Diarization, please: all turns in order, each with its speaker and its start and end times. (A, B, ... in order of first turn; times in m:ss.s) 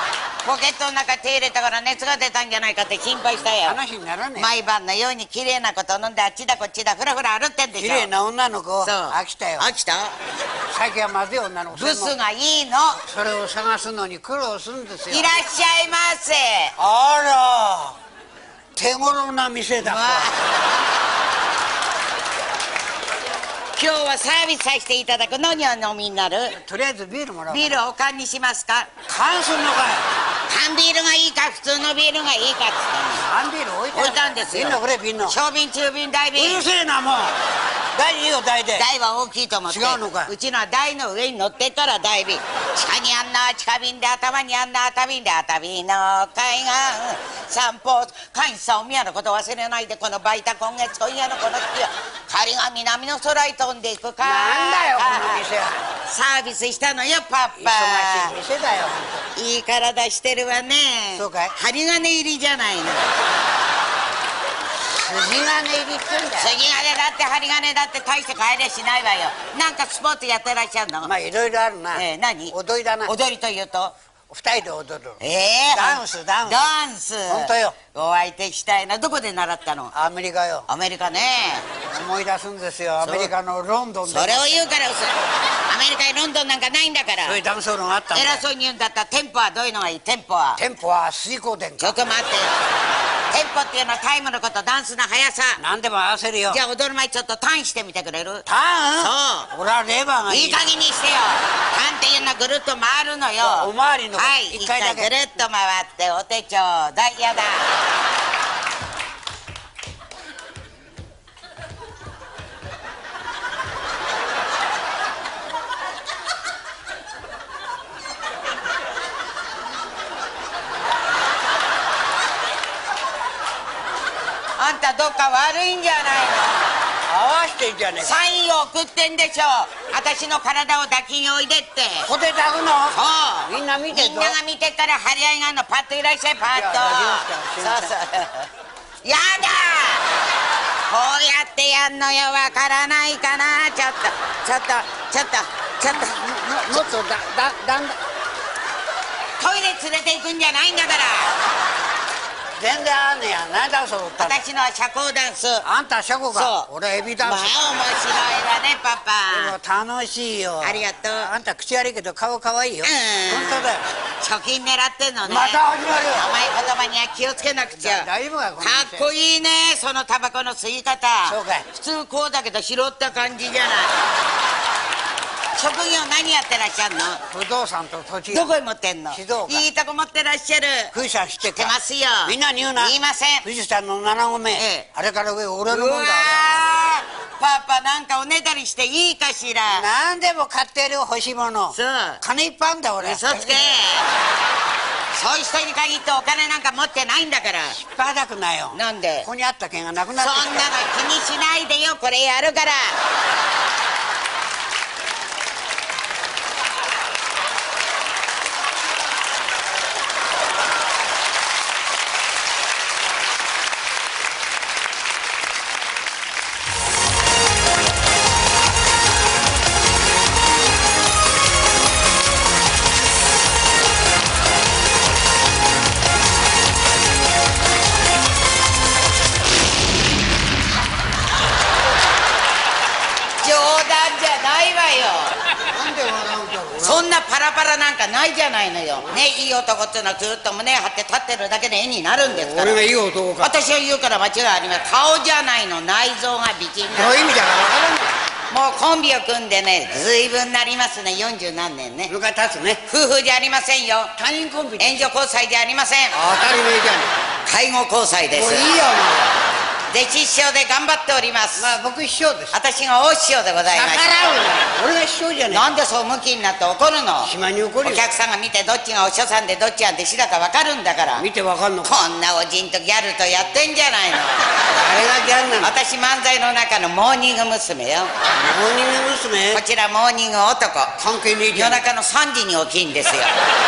0:00.4-0:03.8 A
0:03.6-0:04.5 B
0:04.4-0:08.1 A
0:07.8-0:09.7 B
0:08.8-0:10.1 A
0:10.7-0:12.2 B
0:11.8-0:13.0 A
0:13.0-0:15.3 B
0:15.1-0:16.7 A
0:16.8-0:18.0 B
0:18.8-0:20.3 B
0:19.8-0:20.4 A
0:23.8-0:26.5 A
0:26.5-0:27.8 B
0:27.5-0:28.9 A
0:29.1-0:30.0 B
0:30.5-0:33.2 A
0:33.2-0:35.4 B
0:33.9-0:36.7 A
0:36.4-0:37.4 B
0:37.9-0:38.9 B
0:38.8-0:55.4 A
0:39.7-0:40.3 B
0:54.2-0:55.8 B
0:56.1-0:58.3 A
0:57.6-0:59.3 B
0:59.4-1:03.1 A
1:01.2-1:01.6 B
1:04.8-1:06.5 B
1:06.4-1:11.1 A
1:11.0-1:13.1 B
1:12.0-1:12.5 A
1:13.1-1:13.9 A
1:14.3-1:15.2 B
1:15.2-1:19.9 A
1:15.7-1:16.7 B
1:17.3-1:17.8 B
1:19.9-1:20.7 B
1:20.7-1:21.6 A
1:21.8-1:24.7 B
1:23.0-1:23.3 A
1:24.1-1:25.2 A
1:25.7-1:27.4 A
1:27.2-1:28.4 B
1:28.1-1:30.6 A
1:30.6-1:32.0 B
1:31.8-1:32.5 A
1:33.3-1:35.6 A
1:35.6-1:36.6 B
1:36.5-1:38.4 A
1:38.5-1:40.7 B
1:39.0-1:39.5 A
1:40.3-1:47.7 A
1:43.4-1:45.1 B
2:04.6-2:06.7 A
2:07.1-2:08.2 B
2:08.0-2:12.1 A
2:12.0-2:14.4 B
2:13.0-2:18.5 A
2:16.5-2:17.9 B
2:19.0-2:20.0 A
2:20.9-2:26.1 A
2:25.9-2:28.0 B
2:29.4-2:31.3 A
2:32.6-2:34.4 B
2:34.2-2:35.6 A
2:35.6-2:37.6 B
2:36.3-2:36.7 A
2:37.2-2:39.6 A
2:39.3-2:43.8 B
2:40.6-2:41.3 A
2:42.8-2:43.7 A
2:44.2-2:45.6 A
2:45.3-2:46.3 B
2:46.1-2:48.1 A
2:47.7-2:49.1 B
2:48.6-2:53.9 A
2:51.3-2:51.7 B
2:55.6-2:57.2 A
2:57.3-2:58.5 B
2:58.3-3:00.9 A
2:59.1-2:59.7 B
3:00.9-3:01.7 B
3:01.6-3:03.4 A
3:02.2-3:06.5 B
3:04.6-3:04.9 A
3:05.7-3:09.8 A
3:09.7-3:13.7 B
3:11.8-3:12.2 A
3:13.0-3:14.1 A
3:15.2-3:17.8 A
3:17.7-3:20.7 B
3:18.8-3:19.3 A
3:20.2-3:23.0 A
3:53.4-3:55.3 A
3:55.6-3:57.0 B
3:56.8-4:02.8 A
4:02.2-4:03.6 B
4:03.4-4:07.4 A
4:06.9-4:08.2 B
4:08.5-4:12.1 A
4:12.1-4:12.8 B
4:12.9-4:14.1 A
4:14.2-4:15.1 B
4:14.8-4:16.1 A
4:16.2-4:17.2 B
4:17.5-4:18.7 A
4:18.3-4:19.5 B
4:19.9-4:21.7 A
4:21.6-4:22.5 B
4:22.5-4:24.1 A
4:23.7-4:25.7 B
4:25.5-4:27.3 A
4:27.2-4:28.1 B
4:27.8-4:31.2 A
4:31.2-4:32.0 B
4:31.8-4:34.4 A
4:34.7-4:35.7 B
4:35.6-4:38.1 A
4:38.3-4:39.6 B
4:39.5-4:41.0 A
4:41.0-4:41.8 B
4:41.5-4:43.4 A